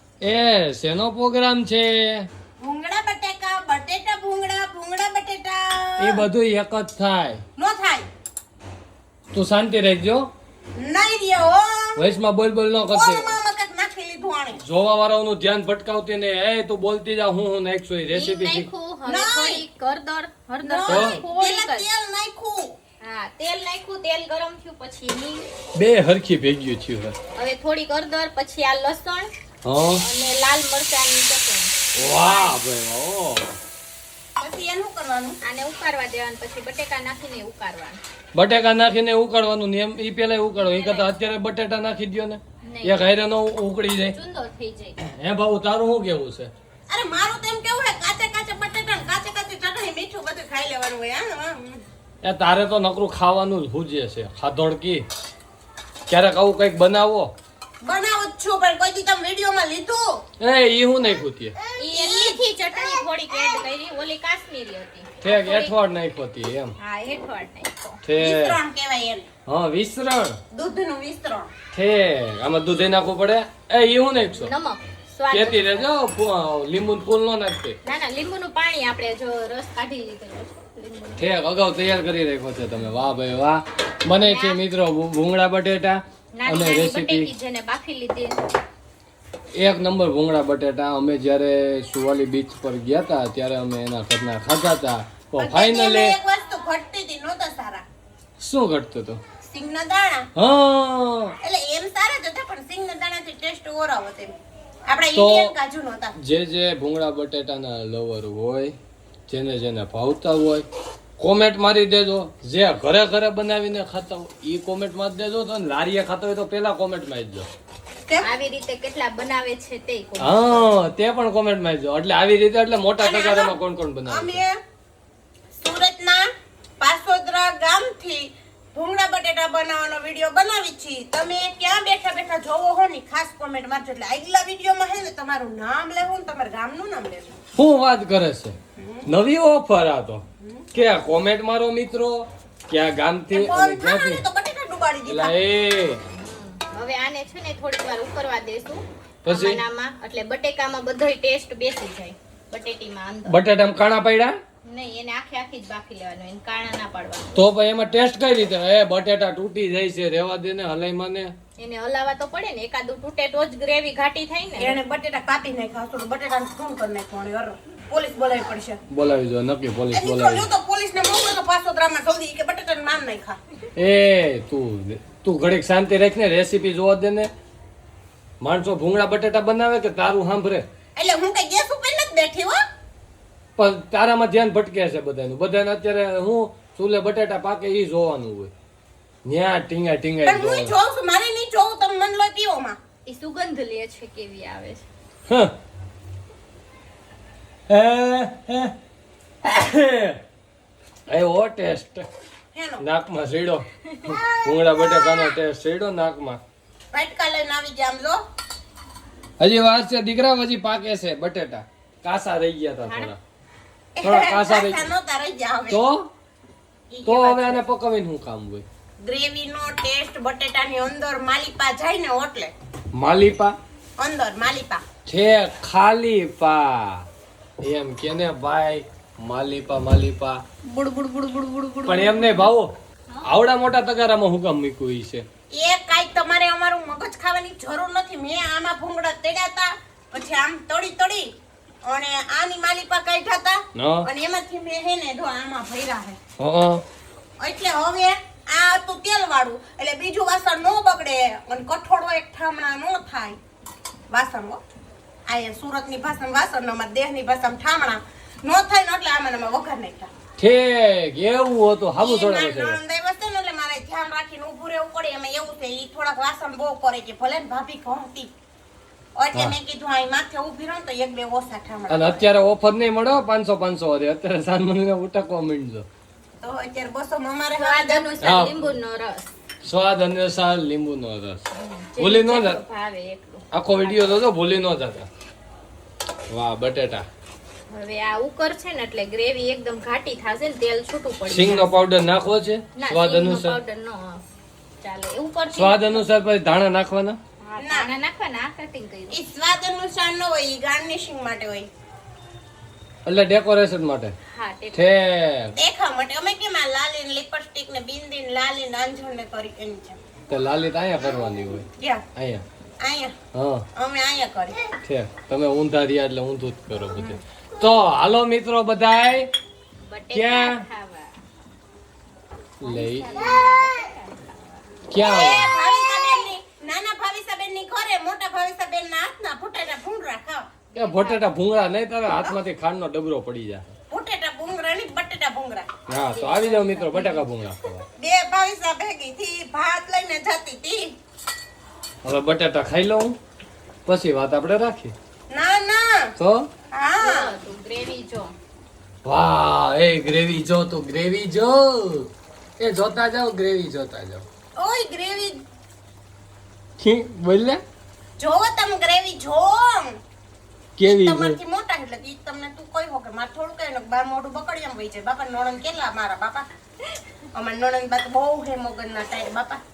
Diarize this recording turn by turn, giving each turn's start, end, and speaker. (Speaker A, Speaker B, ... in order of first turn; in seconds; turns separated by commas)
Speaker A: 0.2-2.3, Speaker B: 2.6-6.2, Speaker A: 6.0-7.4, Speaker B: 7.6-8.1, Speaker A: 9.3-10.3, Speaker B: 10.8-12.0, Speaker A: 12.0-13.3, Speaker B: 12.9-14.6, Speaker A: 14.6-18.7, Speaker C: 18.1-21.9, Speaker B: 19.1-19.6, Speaker B: 20.6-22.8, Speaker A: 20.9-21.2, Speaker C: 23.0-25.5, Speaker A: 25.8-27.2, Speaker C: 27.4-29.3, Speaker A: 29.6-30.0, Speaker C: 30.0-31.7, Speaker A: 32.0-33.5, Speaker C: 32.2-32.5, Speaker B: 34.4-35.4, Speaker C: 35.4-38.0, Speaker A: 38.3-44.2, Speaker C: 40.5-41.1, Speaker C: 42.7-43.1, Speaker C: 44.1-45.0, Speaker A: 45.0-46.5, Speaker B: 46.9-51.8, Speaker A: 52.2-55.1, Speaker A: 56.1-57.3, Speaker B: 57.8-60.2, Speaker A: 60.4-61.5, Speaker C: 61.8-65.7, Speaker B: 61.8-63.6, Speaker A: 65.2-66.7, Speaker C: 66.8-68.0, Speaker A: 68.0-68.6, Speaker B: 68.2-69.3, Speaker A: 69.5-70.4, Speaker B: 70.5-71.5, Speaker A: 71.7-74.5, Speaker C: 74.4-75.9, Speaker A: 75.3-77.8, Speaker C: 77.8-81.3, Speaker A: 81.2-87.3, Speaker C: 84.2-84.6, Speaker C: 86.4-88.4, Speaker A: 89.6-96.2, Speaker B: 95.4-97.8, Speaker A: 98.4-99.2, Speaker B: 99.4-100.3, Speaker A: 100.3-101.3, Speaker B: 101.4-104.3, Speaker B: 104.9-106.2, Speaker A: 105.1-105.5, Speaker A: 106.2-108.8, Speaker A: 109.3-110.7, Speaker A: 111.2-117.5, Speaker C: 118.2-120.7, Speaker A: 120.2-124.4, Speaker B: 123.0-124.6, Speaker B: 125.6-126.2, Speaker B: 126.8-137.4, Speaker A: 137.6-144.2, Speaker B: 138.8-139.1, Speaker B: 140.4-140.7, Speaker B: 143.3-145.3, Speaker A: 145.1-146.0, Speaker C: 146.1-153.4, Speaker A: 149.2-149.6, Speaker A: 153.3-154.4, Speaker C: 154.7-157.4, Speaker A: 157.3-161.3, Speaker C: 161.6-164.8, Speaker B: 164.6-168.8, Speaker A: 168.9-170.5, Speaker B: 169.9-173.4, Speaker A: 173.8-177.3, Speaker A: 178.4-180.7, Speaker B: 181.0-182.6, Speaker A: 183.6-188.5, Speaker A: 189.2-190.7, Speaker B: 190.2-192.8, Speaker C: 193.1-194.8, Speaker A: 195.3-195.5, Speaker A: 197.7-198.7, Speaker A: 199.4-200.2, Speaker A: 201.1-202.1, Speaker B: 202.5-202.8, Speaker A: 202.8-206.4, Speaker B: 204.1-205.4, Speaker B: 206.9-208.2, Speaker A: 209.4-213.2, Speaker C: 212.9-213.1, Speaker B: 214.0-215.8, Speaker A: 214.0-214.8, Speaker A: 215.7-216.1, Speaker B: 216.9-217.6, Speaker A: 217.1-218.7, Speaker B: 219.0-222.5, Speaker A: 222.9-223.6, Speaker B: 224.0-224.8, Speaker A: 225.1-227.1, Speaker A: 227.6-230.4, Speaker C: 230.7-232.5, Speaker A: 231.9-232.7, Speaker A: 233.2-235.3, Speaker B: 235.6-241.3, Speaker B: 241.8-246.2, Speaker A: 243.8-244.1, Speaker A: 246.4-246.8, Speaker B: 247.4-253.4, Speaker B: 254.1-254.6, Speaker B: 255.3-260.1, Speaker A: 260.4-262.8, Speaker B: 262.0-268.3, Speaker B: 269.2-272.2, Speaker A: 271.9-275.9, Speaker B: 276.4-278.2, Speaker C: 277.6-279.3, Speaker A: 278.2-278.7, Speaker A: 279.6-281.4, Speaker C: 281.5-284.1, Speaker A: 282.0-282.6, Speaker A: 283.5-285.1, Speaker A: 286.3-287.1, Speaker C: 287.7-291.7, Speaker A: 291.3-293.6, Speaker C: 292.8-294.2, Speaker C: 294.8-296.0, Speaker A: 295.5-297.2, Speaker C: 297.4-299.2, Speaker B: 297.6-297.9, Speaker B: 299.1-301.7, Speaker A: 303.1-304.1, Speaker C: 304.3-304.9, Speaker A: 304.7-305.5, Speaker B: 305.6-310.0, Speaker A: 310.3-312.4, Speaker B: 311.8-312.0, Speaker B: 312.8-313.1, Speaker A: 313.3-313.7, Speaker B: 313.8-314.5, Speaker A: 314.9-319.3, Speaker C: 319.9-321.1, Speaker A: 320.1-320.6, Speaker A: 322.6-323.2, Speaker C: 322.6-324.7, Speaker A: 324.9-325.5, Speaker B: 325.0-330.5, Speaker C: 330.7-331.3, Speaker A: 330.8-333.7, Speaker B: 333.9-335.7, Speaker A: 335.9-337.9, Speaker C: 336.1-337.3, Speaker B: 338.0-340.9, Speaker A: 342.0-343.2, Speaker A: 343.9-344.9, Speaker B: 345.3-346.1, Speaker A: 346.2-346.5, Speaker B: 346.7-347.3, Speaker C: 347.0-348.3, Speaker A: 349.0-354.2, Speaker B: 354.6-355.4, Speaker A: 356.8-357.6, Speaker B: 358.2-360.0, Speaker A: 360.8-361.4, Speaker B: 360.8-366.5, Speaker B: 367.3-369.6